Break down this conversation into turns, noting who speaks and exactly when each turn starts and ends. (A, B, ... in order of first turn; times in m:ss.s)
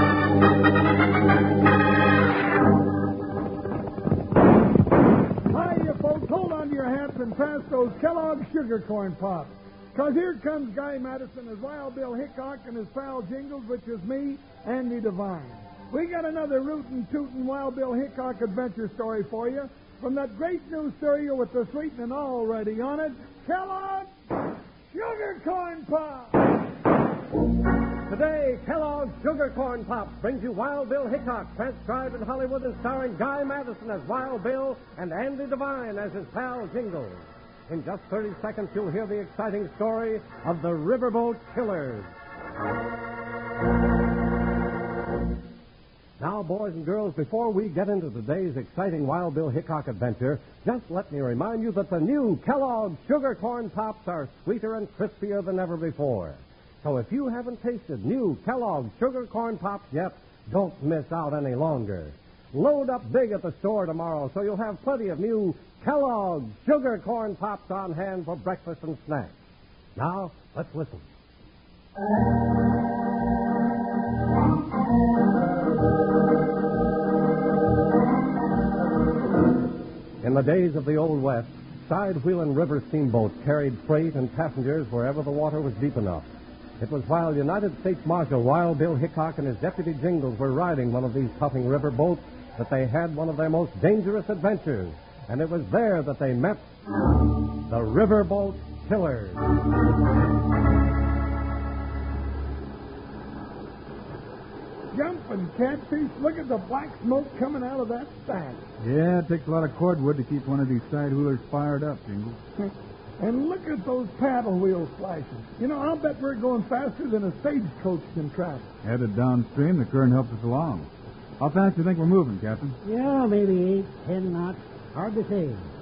0:05.4-0:24.1 A
0:24.9-0:26.4 A
0:28.1-0:42.1 B
0:46.2-1:09.3 B
1:10.0-1:11.1 B
1:20.2-1:26.3 B
1:26.8-1:36.7 B
1:37.7-1:39.4 B
1:44.9-1:48.6 A
1:48.8-1:52.4 C
1:52.6-1:58.7 A
1:58.8-2:00.9 C
2:01.4-2:02.8 C
2:02.8-2:05.7 D